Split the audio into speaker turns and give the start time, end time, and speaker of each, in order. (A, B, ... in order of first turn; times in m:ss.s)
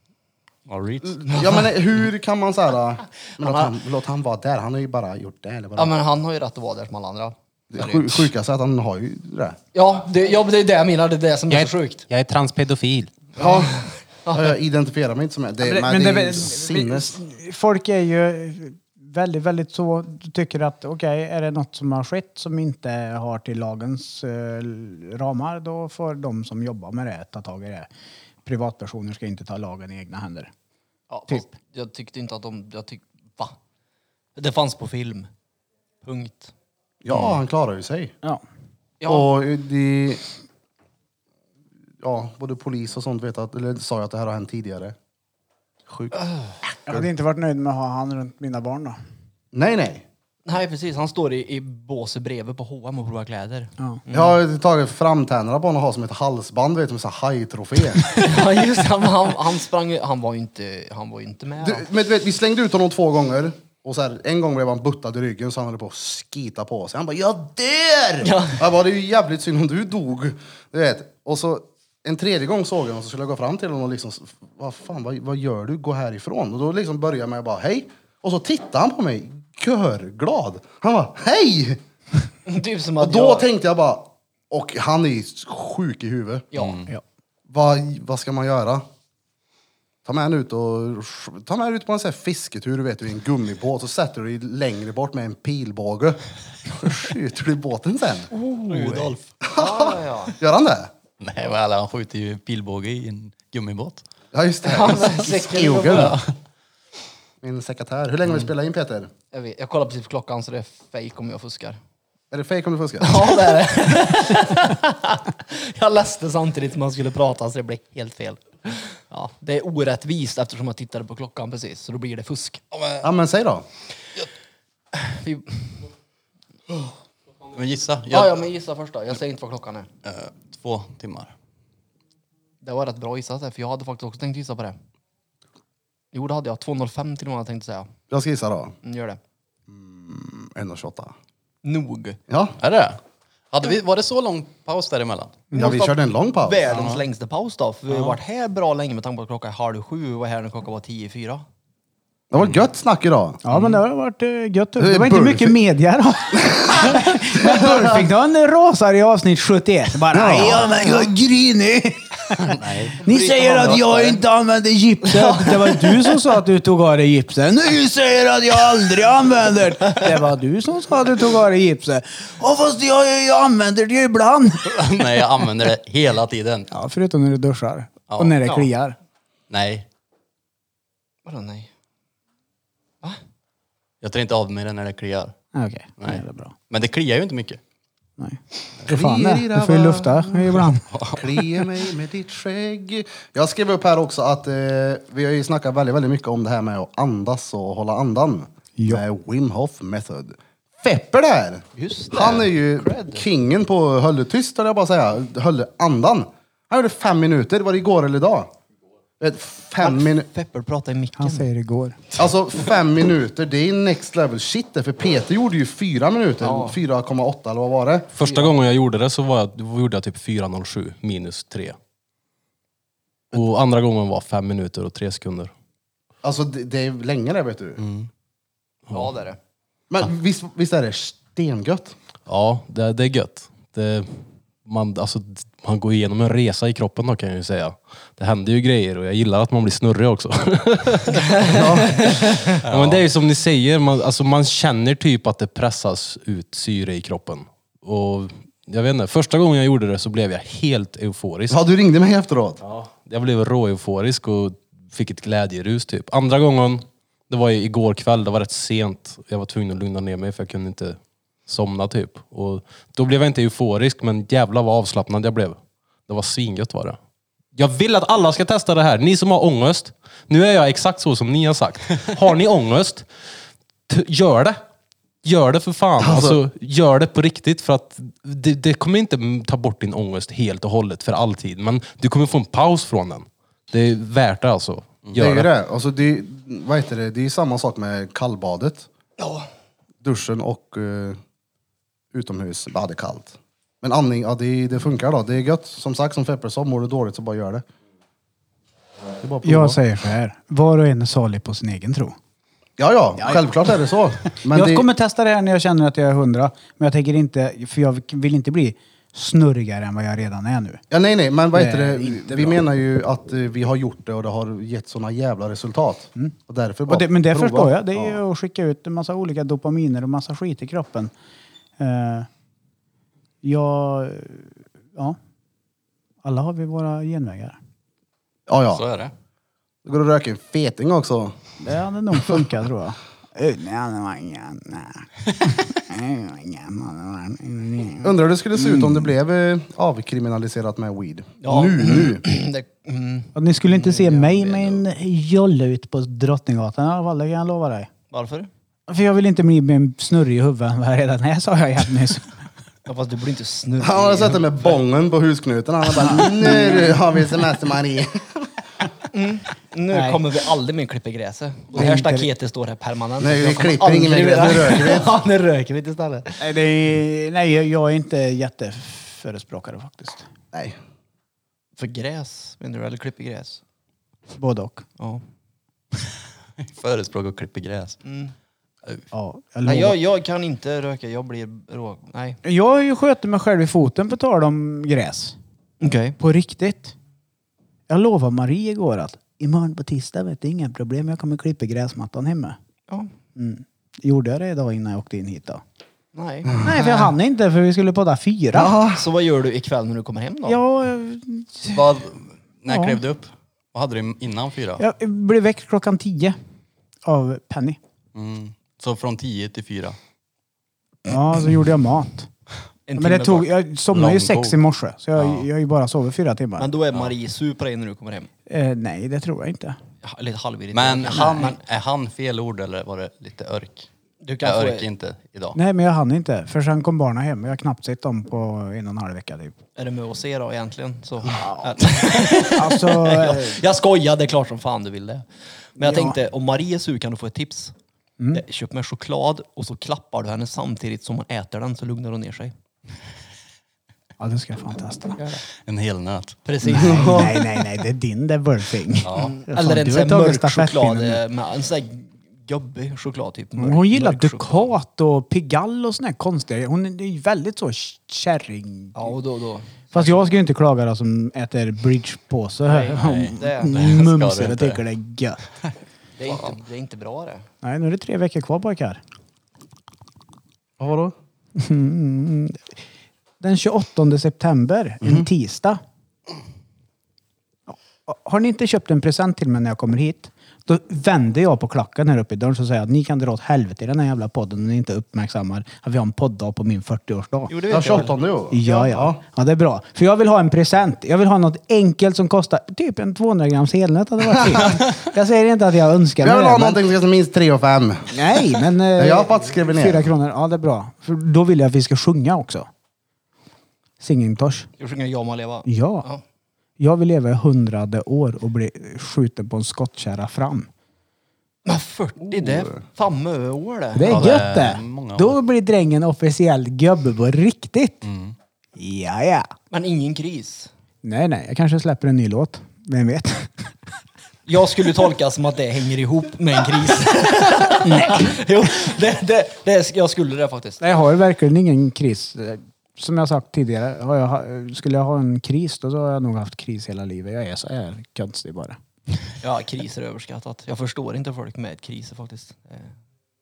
0:00.7-0:01.2 A
0:01.2-0:06.0 B
0:01.3-0:01.6 C
0:03.4-0:03.7 C
0:05.8-0:08.3 C
0:07.7-0:09.6 B
0:09.7-0:12.0 C
0:11.5-0:13.1 D
0:13.4-0:13.8 B
0:13.4-0:14.5 C
0:14.3-0:17.2 B
0:15.6-0:27.9 E
0:28.4-0:30.5 E
0:31.1-0:33.6 C
0:34.4-0:35.3 C
0:36.0-0:36.5 C
0:37.0-0:38.1 B
0:37.1-0:37.4 A
0:39.0-0:39.3 C
0:39.0-0:40.2 B
0:42.0-0:44.9 B
0:45.9-0:46.1 B
0:46.9-0:49.0 E
0:49.5-0:50.0 B
0:50.4-0:54.4 C
0:54.1-0:58.2 B
0:58.1-1:01.8 C
1:01.6-1:21.8 B
1:08.2-1:08.6 C
1:22.4-1:23.5 C
1:23.0-1:26.4 B
1:26.5-1:26.8 C
1:26.5-1:26.9 A
1:27.5-1:28.8 B
1:30.0-1:38.3 B
1:38.3-1:40.4 C
1:38.7-1:39.2 A
1:39.4-1:40.9 B
1:41.2-1:44.0 A
1:44.3-1:46.2 B
1:44.6-1:46.2 C
1:45.9-1:46.2 A
1:47.4-1:49.1 B
1:49.3-1:51.8 C
1:52.3-1:53.4 B
1:53.0-2:02.6 C
2:02.7-2:03.0 A
2:03.0-2:03.6 B
2:04.9-2:05.8 C
2:07.5-2:08.4 A
2:08.1-2:09.9 C
2:10.0-2:11.3 A
2:12.6-2:14.8 C
2:16.1-2:17.9 C
2:18.1-2:18.7 B
2:18.8-2:19.2 C
2:19.7-2:21.1 B
2:21.6-2:22.2 C
2:22.3-2:22.6 B
2:22.6-2:23.0 A
2:23.5-2:25.4 A
2:25.5-2:26.7 B
2:25.5-2:31.4 C
2:26.7-2:27.0 A
2:32.3-2:33.4 B
2:33.4-2:54.8 E
2:33.5-2:33.8 A
2:34.8-2:35.6 B
2:36.3-2:38.1 B
2:40.1-2:41.1 B
2:42.5-2:43.0 A
2:43.0-2:44.2 C
2:45.0-2:46.1 C
2:54.6-2:56.7 A
2:56.7-2:59.0 E
2:58.1-2:58.4 A
2:58.4-2:58.7 C
2:59.5-2:59.8 A
3:01.2-3:01.7 C
3:04.0-3:05.3 A
3:05.5-3:06.5 E
3:06.0-3:07.6 A
3:08.2-3:10.8 E
3:08.9-3:28.5 B
3:10.9-3:11.2 A
3:18.8-3:19.0 E
3:21.8-3:23.2 C
3:29.2-3:30.3 B
3:29.8-3:31.5 C
3:31.2-3:32.0 E
3:32.2-3:38.1 B
3:36.4-3:36.8 C
3:38.1-3:41.8 D
3:38.2-3:38.5 C
3:43.3-3:45.5 D
3:46.2-3:47.8 B
3:47.8-3:48.1 A
3:48.9-3:49.4 C
3:49.9-3:52.0 B
3:52.3-4:01.6 D
4:01.3-4:02.5 C
4:01.5-4:02.0 B
4:02.4-4:11.6 D
4:02.6-4:03.0 A
4:11.5-4:12.6 B
4:12.6-4:27.0 D
4:27.5-4:33.1 D
4:33.9-4:34.6 D
4:35.2-4:45.5 D
4:36.0-4:36.4 B
4:45.2-4:48.9 B
4:49.2-4:49.4 C
4:50.0-4:51.2 B
4:52.1-4:57.6 B
4:59.2-4:59.8 B
4:59.4-5:02.2 E
5:02.8-5:04.9 B
5:03.2-5:03.8 E
5:04.4-5:10.8 E
5:10.9-5:18.2 B
5:11.5-5:12.6 E
5:16.9-5:21.1 E
5:21.8-5:22.3 E
5:23.4-5:25.2 E
5:26.2-5:27.6 E
5:28.5-5:28.8 B
5:28.7-5:29.1 A
5:29.8-5:31.3 B
5:31.6-5:39.0 E
5:38.0-5:42.2 B
5:41.4-5:44.8 C
5:43.3-5:47.9 E
5:48.1-5:48.5 C
5:48.9-5:52.3 E
5:52.8-5:54.8 C
5:53.8-5:58.5 B
5:56.0-5:57.0 E
5:59.1-6:06.4 C
5:59.9-6:00.2 E
6:01.7-6:02.3 E
6:03.2-6:05.2 B
6:06.4-6:10.3 E
6:10.5-6:10.8 B
6:11.8-6:13.6 C
6:14.4-6:14.8 E
6:16.6-6:18.0 A
6:18.0-6:18.3 C
6:19.1-6:20.0 E
6:19.6-6:22.4 C
6:22.4-6:25.3 E
6:25.8-6:26.2 C
6:26.2-6:26.9 E
6:27.9-6:32.6 E
6:33.4-6:35.6 E
6:36.1-6:37.1 C
6:36.4-6:37.0 B
6:36.6-6:38.8 E
6:38.5-6:39.0 B
6:38.9-6:40.6 C
6:40.4-6:41.8 E
6:41.7-6:44.8 A
6:42.7-6:43.0 E
6:44.8-6:46.4 E
6:47.0-6:47.8 E
6:48.1-6:50.0 A
6:51.0-6:52.3 E
6:52.9-6:53.5 C
6:53.0-6:56.7 E
6:53.9-6:54.6 A
6:55.1-6:55.5 A
6:56.6-6:58.3 C
6:58.5-6:59.8 E
7:00.0-7:01.6 C
7:00.7-7:03.9 A
7:01.1-7:01.4 E
7:04.2-7:04.8 C
7:04.4-7:05.6 A
7:05.5-7:09.6 E
7:09.8-7:17.7 C
7:11.3-7:13.6 E
7:15.8-7:16.2 E
7:18.3-7:22.5 C
7:24.2-7:25.2 E
7:25.6-7:26.4 A
7:26.4-7:27.3 C
7:26.6-7:31.2 E
7:26.7-7:27.4 B
7:29.0-7:29.3 A
7:29.1-7:34.7 C
7:33.6-7:39.1 E
7:38.9-7:40.2 C
7:39.9-7:45.4 E
7:42.6-7:43.8 C
7:42.9-7:44.8 A
7:46.2-7:47.4 C
7:47.6-7:49.0 E
7:50.8-7:51.1 B
7:51.6-7:52.7 E
7:53.4-7:55.8 E
7:57.7-8:07.5 E
8:07.5-8:08.2 C
8:07.7-8:09.2 B
8:08.5-8:16.8 E
8:16.2-8:18.4 B
8:18.1-8:22.7 E
8:18.9-8:20.1 B
8:24.0-8:24.7 E
8:24.8-8:26.2 C
8:25.6-8:26.0 E
8:26.8-8:30.7 E
8:31.6-8:34.1 C
8:32.3-8:32.8 B
8:34.0-8:38.0 E
8:34.0-8:35.4 A
8:38.0-8:38.4 A
8:38.8-8:39.5 E
8:39.7-8:40.7 C
8:41.0-8:43.6 E
8:44.4-8:50.8 C
8:47.8-8:48.4 E
8:50.8-8:58.8 E
8:59.4-9:02.9 C